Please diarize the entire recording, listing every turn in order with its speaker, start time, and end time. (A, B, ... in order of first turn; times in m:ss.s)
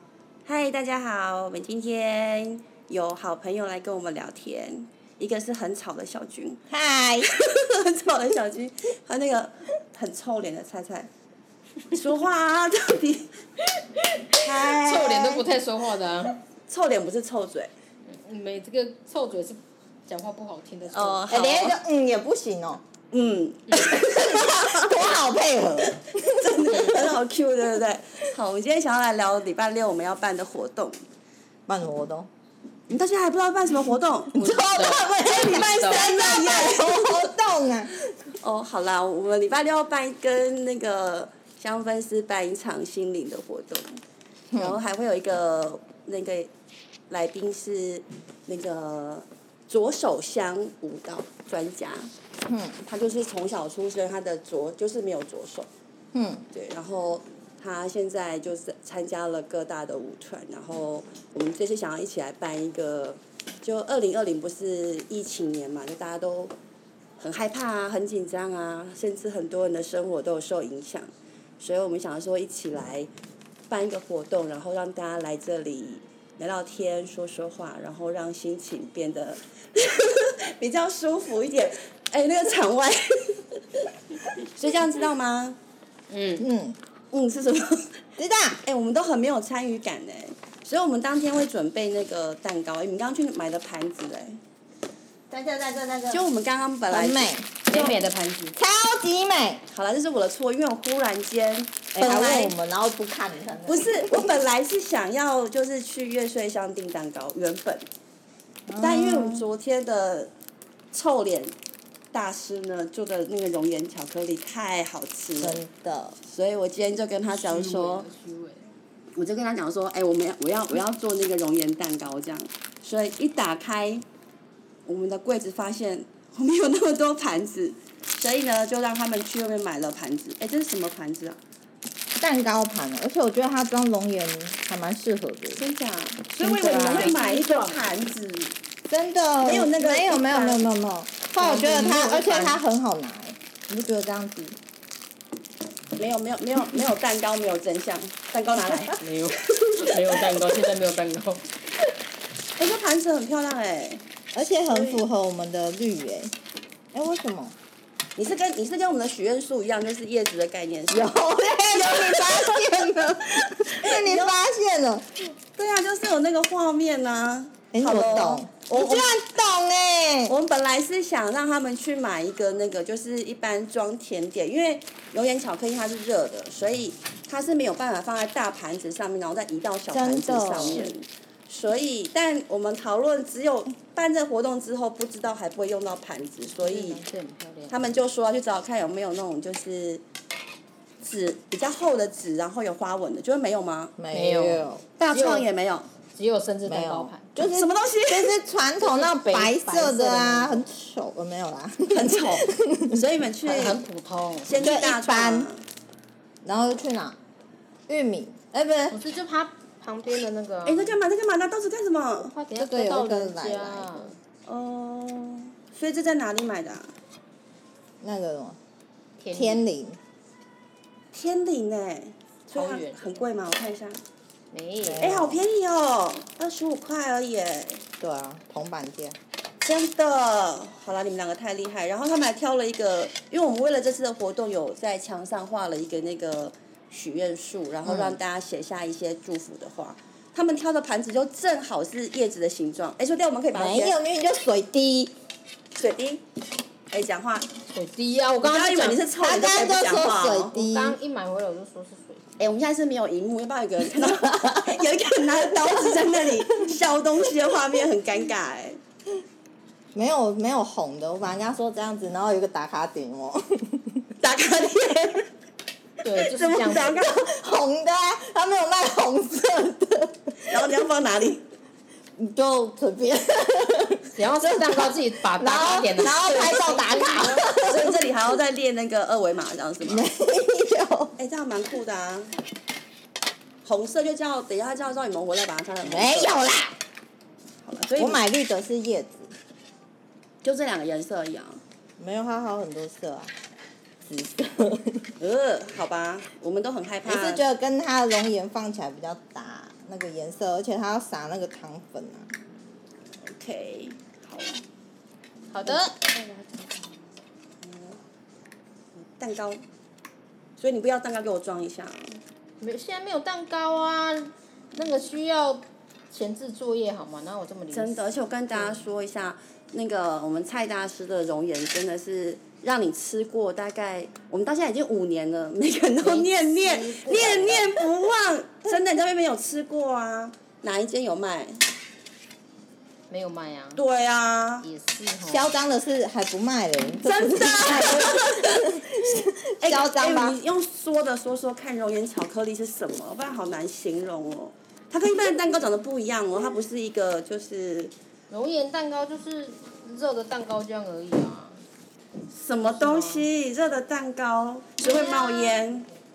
0:00.4-0:06.6 A
0:06.7-0:07.3 B
0:07.2-0:11.1 A
0:11.9-0:13.3 A
0:14.4-0:15.4 B
0:14.4-0:15.4 A
0:14.6-0:16.4 C
0:16.7-0:17.7 A
0:18.1-0:21.3 C
0:20.8-0:21.8 A
0:21.3-0:22.8 B
0:23.1-0:25.0 A
0:23.7-0:24.0 C
0:23.9-0:27.2 B
0:26.2-0:31.0 A
0:31.7-0:32.3 B
0:32.9-0:37.0 A
0:34.3-0:38.1 B
0:34.6-0:36.1 C
0:38.4-0:44.0 A
0:44.5-0:44.8 B
0:44.6-0:46.5 A
0:47.1-0:52.1 A
0:52.5-0:52.8 B
0:52.8-0:55.7 A
0:56.1-0:56.4 B
0:56.5-1:06.5 A
1:07.2-1:11.1 A
1:11.6-1:13.1 A
1:13.7-1:25.6 A
1:26.1-1:26.4 C
1:26.4-1:26.8 B
1:27.1-1:27.9 A
1:28.2-1:28.6 B
1:28.6-1:34.4 A
1:35.3-1:36.3 B
1:36.1-1:38.1 A
1:36.9-1:37.5 B
1:37.6-1:38.6 C
1:38.6-1:39.6 B
1:39.7-1:42.5 A
1:41.9-1:44.3 B
1:43.6-1:47.8 A
1:48.7-1:49.5 B
1:48.8-1:50.3 A
1:50.9-1:51.5 A
1:52.1-1:55.6 A
1:55.4-1:56.2 B
1:56.2-1:58.1 A
1:57.3-1:58.7 C
1:59.2-2:04.0 A
2:04.8-2:11.4 A
2:12.2-2:15.6 B
2:15.6-2:18.5 A
2:16.4-2:17.1 B
2:16.6-2:17.8 C
2:18.9-2:24.6 B
2:19.4-2:20.6 A
2:21.4-2:22.6 C
2:26.0-2:30.2 A
2:29.0-2:31.4 C
2:32.6-2:34.0 A
2:34.3-2:36.3 B
2:34.7-2:35.0 A
2:36.9-2:37.5 B
2:38.2-2:41.1 A
2:40.9-2:45.3 B
2:41.7-2:42.9 A
2:43.8-2:44.4 A
2:45.6-2:49.1 A
2:47.7-2:50.4 B
2:50.3-3:07.0 A
2:59.9-3:00.9 B
3:06.6-3:07.7 C
3:07.7-3:10.0 A
3:11.0-3:13.9 A
3:14.0-3:14.8 B
3:14.1-3:15.5 C
3:15.0-3:15.9 A
3:16.1-3:17.3 C
3:16.6-3:23.0 B
3:17.4-3:18.4 A
3:18.8-3:20.6 C
3:21.9-3:23.8 A
3:23.4-3:24.5 C
3:24.4-3:25.6 A
3:24.6-3:25.5 B
3:26.4-3:27.2 B
3:27.9-3:29.0 B
3:28.9-3:31.0 C
3:30.6-3:32.3 A
3:32.2-3:34.2 C
3:32.5-3:34.1 B
3:34.5-3:36.9 A
3:38.0-3:38.6 B
3:39.2-3:39.6 C
3:39.3-3:40.0 B
3:41.1-3:44.0 A
3:42.5-3:43.2 C
3:44.5-3:45.1 C
3:44.8-3:45.4 B
3:45.0-3:47.8 A
3:48.0-3:49.2 B
3:49.6-4:04.0 A
3:57.8-3:58.2 B
4:03.5-4:05.1 B
4:05.7-4:06.2 A
4:06.9-4:07.5 A
4:07.7-4:09.0 C
4:08.4-4:10.5 A
4:09.2-4:11.0 B
4:10.5-4:12.2 C
4:12.4-4:18.8 A
4:14.1-4:14.6 B
4:15.6-4:16.1 B
4:19.9-4:24.1 B
4:24.2-4:25.2 A
4:26.0-4:27.0 C
4:26.0-4:27.2 A
4:27.0-4:30.6 B
4:30.5-4:31.4 A
4:32.2-4:38.1 B
4:34.1-4:37.4 C
4:36.1-4:36.8 A
4:37.6-4:40.0 A
4:39.8-4:41.1 B
4:41.2-4:42.3 A
4:43.6-4:46.4 A
4:45.8-4:46.7 B
4:47.6-4:48.2 A
4:48.0-4:49.3 B
4:50.4-4:51.6 A
4:52.0-4:53.3 B
4:54.0-4:55.1 B
4:55.2-4:57.4 A
4:57.0-5:02.3 B
5:03.2-5:04.6 A
5:05.5-5:05.9 C
5:05.6-5:07.0 A
5:07.6-5:08.0 A
5:09.0-5:09.6 A
5:10.6-5:12.2 A
5:12.6-5:18.8 C
5:17.7-5:31.6 A
5:26.0-5:27.8 C
5:33.1-5:33.8 C
5:33.8-5:34.6 A
5:34.6-5:35.5 C
5:35.2-5:40.4 B
5:37.0-5:38.5 A
5:39.6-5:47.9 A
5:48.3-5:51.6 C
5:52.3-5:55.9 A
5:52.6-5:53.3 C
5:54.8-5:55.7 C